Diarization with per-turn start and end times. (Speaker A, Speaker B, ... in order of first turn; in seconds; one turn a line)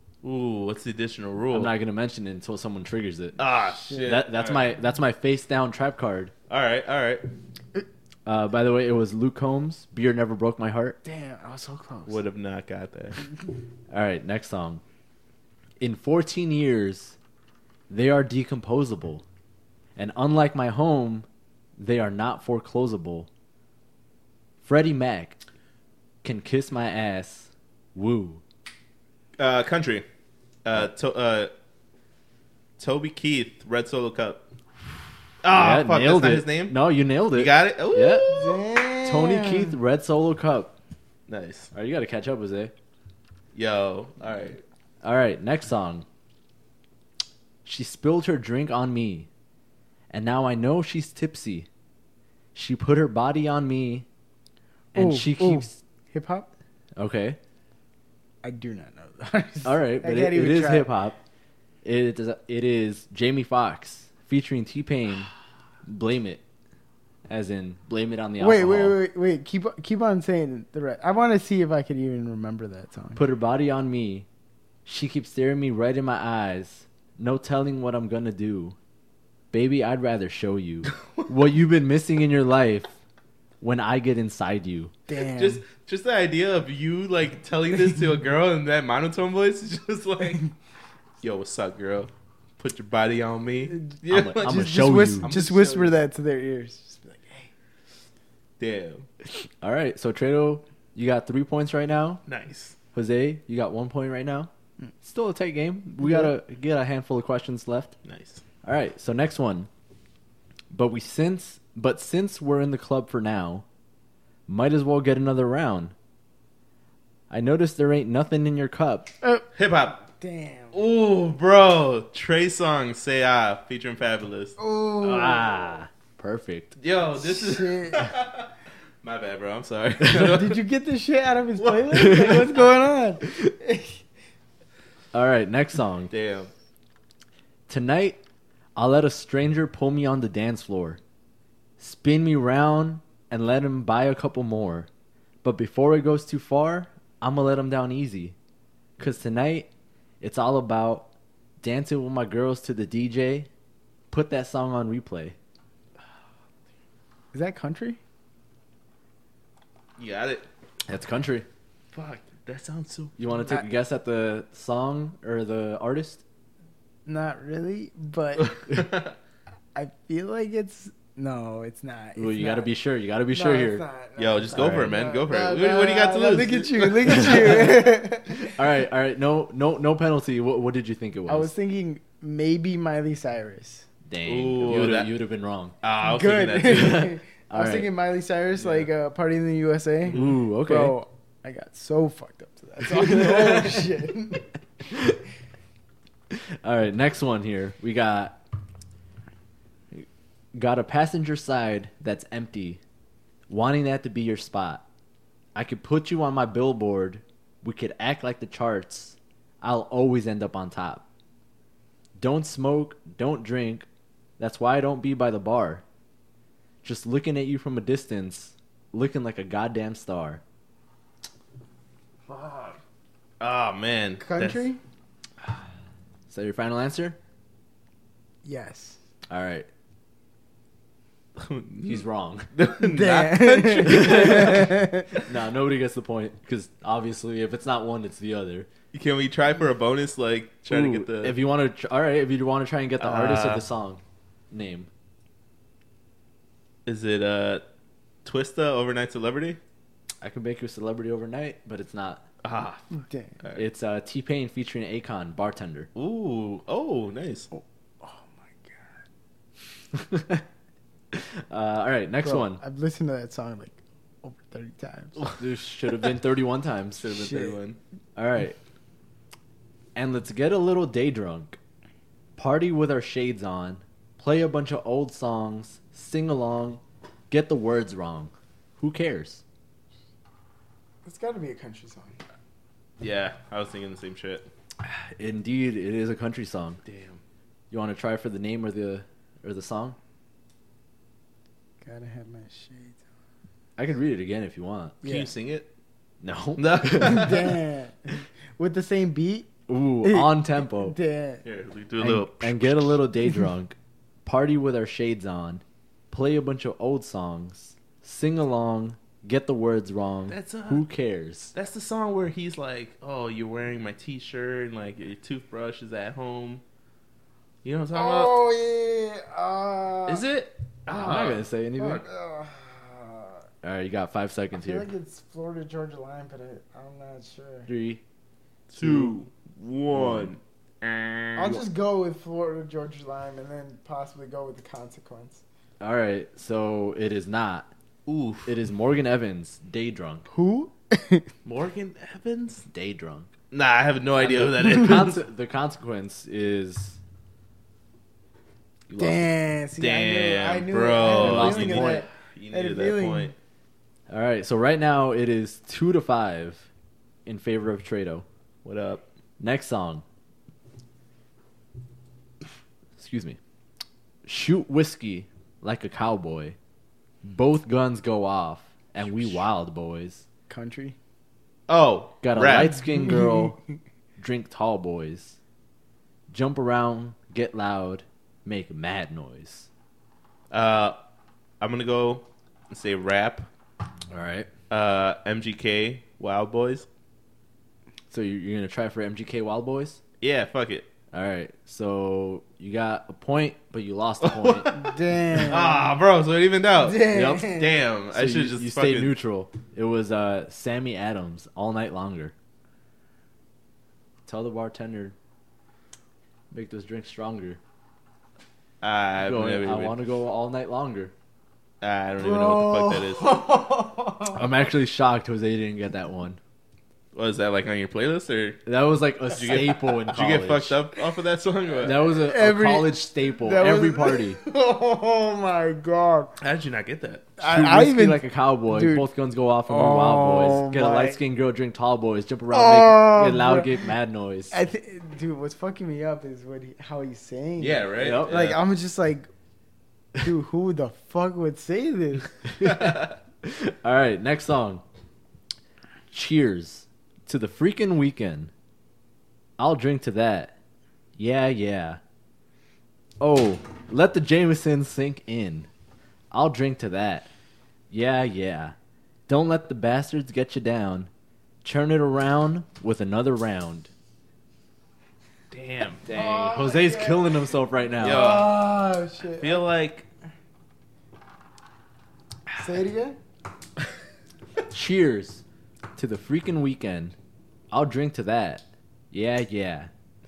Speaker A: 0.2-1.7
Speaker B: 1.5-3.4
Speaker A: 3.4-4.7
Speaker B: 3.9-6.3
Speaker A: 6.5-7.3
Speaker B: 8.2-11.0
Speaker C: 11.0-12.2
Speaker A: 12.1-13.2
Speaker B: 13.9-14.8
Speaker B: 15.8-17.2
Speaker B: 17.9-19.2
Speaker B: 19.9-23.3
Speaker B: 24.6-25.4
Speaker B: 26.2-28.4
Speaker A: 29.4-30.0
Speaker A: 30.6-31.5
Speaker A: 32.8-34.4
Speaker A: 35.4-36.8
Speaker B: 35.5-38.5
Speaker A: 37.3-38.6
Speaker C: 38.2-39.8
Speaker B: 39.0-40.7
Speaker A: 41.3-41.7
Speaker B: 41.7-42.7
Speaker A: 43.5-44.6
Speaker B: 45.0-46.0
Speaker B: 47.6-49.3
Speaker B: 50.1-51.7
Speaker B: 52.5-54.0
Speaker B: 54.9-55.8
Speaker C: 54.9-56.5
Speaker B: 57.0-57.4
Speaker C: 58.4-60.9
Speaker B: 59.6-61.2
Speaker B: 61.8-65.3
Speaker B: 65.8-66.4
Speaker B: 67.3-69.0
Speaker C: 68.4-73.2
Speaker B: 73.2-74.3
Speaker B: 74.8-78.8
Speaker B: 79.5-82.9
Speaker B: 83.6-84.9
Speaker C: 85.1-85.6
Speaker A: 85.3-90.4
Speaker A: 91.2-95.9
Speaker B: 94.1-95.3
Speaker C: 94.4-97.5
Speaker A: 98.6-99.0
Speaker B: 99.6-102.2
Speaker A: 102.2-102.8
Speaker B: 102.9-104.5
Speaker B: 105.0-107.9
Speaker C: 106.0-106.3
Speaker A: 108.0-108.4
Speaker B: 108.6-109.7
Speaker B: 110.7-113.6
Speaker B: 114.5-115.9
Speaker B: 117.3-119.1
Speaker C: 119.2-120.8
Speaker A: 119.5-120.0
Speaker A: 120.7-124.6
Speaker C: 124.6-125.7
Speaker B: 125.0-126.7
Speaker A: 126.8-128.5
Speaker C: 127.2-128.1
Speaker A: 129.0-130.6
Speaker C: 130.1-134.0
Speaker A: 131.6-132.4
Speaker B: 132.0-132.4
Speaker B: 135.1-136.1
Speaker A: 136.1-136.5
Speaker B: 137.7-138.2
Speaker B: 138.8-141.0
Speaker B: 141.8-144.9
Speaker B: 145.4-148.3
Speaker B: 149.0-149.7
Speaker B: 150.2-151.1
Speaker B: 151.6-153.5
Speaker B: 154.1-155.3
Speaker C: 157.3-158.0
Speaker A: 160.0-160.4
Speaker B: 160.9-161.5
Speaker A: 161.9-163.2
Speaker B: 163.2-166.2
Speaker C: 167.1-168.6
Speaker A: 168.4-169.2
Speaker C: 169.7-172.7
Speaker B: 172.2-173.8
Speaker C: 173.3-178.6
Speaker A: 174.2-177.8
Speaker B: 174.5-175.0
Speaker B: 177.1-177.8
Speaker B: 178.5-181.5
Speaker C: 181.3-183.9
Speaker B: 184.1-185.8
Speaker A: 184.2-185.1
Speaker A: 185.8-187.1
Speaker C: 186.0-194.5
Speaker B: 186.7-187.9
Speaker A: 188.6-188.9
Speaker B: 190.1-190.9
Speaker B: 192.8-193.9
Speaker B: 194.9-195.2
Speaker B: 196.3-198.4
Speaker B: 199.9-202.8
Speaker B: 203.5-204.8
Speaker B: 205.5-211.0
Speaker B: 212.2-213.9
Speaker B: 214.4-215.8
Speaker B: 216.8-220.4
Speaker A: 222.3-222.8
Speaker A: 223.4-224.7
Speaker C: 224.2-224.8
Speaker B: 226.3-227.2
Speaker C: 228.4-229.0
Speaker B: 229.3-229.7
Speaker A: 231.4-235.2
Speaker B: 231.8-232.5
Speaker C: 232.8-235.1
Speaker B: 233.8-234.7
Speaker B: 235.2-238.7
Speaker A: 238.9-241.4
Speaker B: 240.7-244.9
Speaker A: 243.0-243.7
Speaker A: 246.8-247.6
Speaker A: 248.2-249.6
Speaker B: 250.2-252.2
Speaker A: 252.4-253.6
Speaker C: 252.9-253.3
Speaker B: 253.5-255.9
Speaker A: 255.9-257.5
Speaker C: 257.5-258.8
Speaker B: 259.9-260.4
Speaker B: 261.1-262.6
Speaker C: 262.2-265.2
Speaker B: 265.4-267.1
Speaker A: 266.9-267.8
Speaker C: 267.1-267.6
Speaker B: 268.1-268.6
Speaker B: 269.9-271.6
Speaker B: 272.4-279.4
Speaker C: 281.0-282.1
Speaker A: 283.0-284.5
Speaker B: 284.8-286.8
Speaker A: 286.8-287.2
Speaker B: 287.7-290.0
Speaker C: 291.8-293.0
Speaker B: 293.8-295.0
Speaker C: 295.0-295.3
Speaker A: 295.0-295.7
Speaker B: 296.2-297.4
Speaker A: 296.6-297.5
Speaker C: 297.0-299.5
Speaker B: 299.7-300.9
Speaker C: 300.0-301.4
Speaker A: 301.4-303.0
Speaker B: 302.0-311.5
Speaker A: 310.3-310.9
Speaker A: 311.5-316.6
Speaker A: 317.6-318.4
Speaker C: 317.9-320.2
Speaker A: 320.1-322.0
Speaker B: 320.9-322.0
Speaker C: 321.9-323.4
Speaker B: 323.6-324.9
Speaker C: 324.5-327.7
Speaker B: 327.7-328.0
Speaker A: 328.7-331.6
Speaker B: 328.8-329.2
Speaker B: 329.9-330.3
Speaker C: 331.4-335.4
Speaker B: 335.8-337.7
Speaker A: 338.1-338.5
Speaker B: 338.4-340.3
Speaker C: 340.3-341.3
Speaker A: 341.4-342.7
Speaker B: 342.7-343.3
Speaker A: 343.5-345.2
Speaker B: 344.2-347.0
Speaker A: 348.9-349.3
Speaker C: 349.0-353.3
Speaker A: 349.8-353.3
Speaker B: 351.1-352.1
Speaker B: 354.1-356.7
Speaker B: 357.2-358.2
Speaker A: 358.6-359.1
Speaker B: 359.4-360.0
Speaker B: 363.0-363.4
Speaker B: 364.2-366.6
Speaker B: 367.2-370.2
Speaker C: 370.5-370.9
Speaker A: 371.7-372.8
Speaker B: 372.2-373.6
Speaker C: 373.0-373.5
Speaker B: 374.2-375.4
Speaker B: 376.3-379.7
Speaker A: 380.5-381.0
Speaker A: 381.6-383.5
Speaker B: 384.1-384.5
Speaker A: 384.7-386.9
Speaker B: 388.1-390.0
Speaker A: 390.2-390.9
Speaker B: 391.1-394.7
Speaker A: 394.2-399.1
Speaker C: 394.7-395.9
Speaker C: 396.8-397.7
Speaker B: 397.1-402.3
Speaker B: 404.2-405.1
Speaker B: 406.5-407.6
Speaker A: 408.8-410.0
Speaker B: 409.2-411.1
Speaker A: 411.8-413.4
Speaker C: 412.2-414.5
Speaker B: 414.3-416.4
Speaker A: 417.1-418.6
Speaker B: 418.6-420.8
Speaker A: 419.3-422.0
Speaker B: 421.8-424.4
Speaker C: 422.1-426.3
Speaker A: 426.4-427.3
Speaker C: 427.4-429.1
Speaker B: 427.4-434.5
Speaker C: 429.7-431.2
Speaker C: 432.5-433.8
Speaker C: 434.5-439.3
Speaker A: 437.6-438.6
Speaker B: 438.0-438.4
Speaker C: 440.2-442.3
Speaker B: 442.5-444.8
Speaker A: 442.6-443.1
Speaker B: 446.1-448.5
Speaker B: 449.6-450.5
Speaker B: 451.2-452.0
Speaker B: 453.2-455.7
Speaker B: 456.3-457.3
Speaker B: 457.9-458.7
Speaker B: 459.3-461.1
Speaker B: 461.6-463.9
Speaker A: 465.5-466.1
Speaker B: 466.0-468.4
Speaker C: 466.1-469.6
Speaker A: 468.0-468.6
Speaker A: 469.4-470.1
Speaker C: 472.6-473.2
Speaker B: 474.7-475.4
Speaker B: 475.9-477.1
Speaker B: 477.7-479.9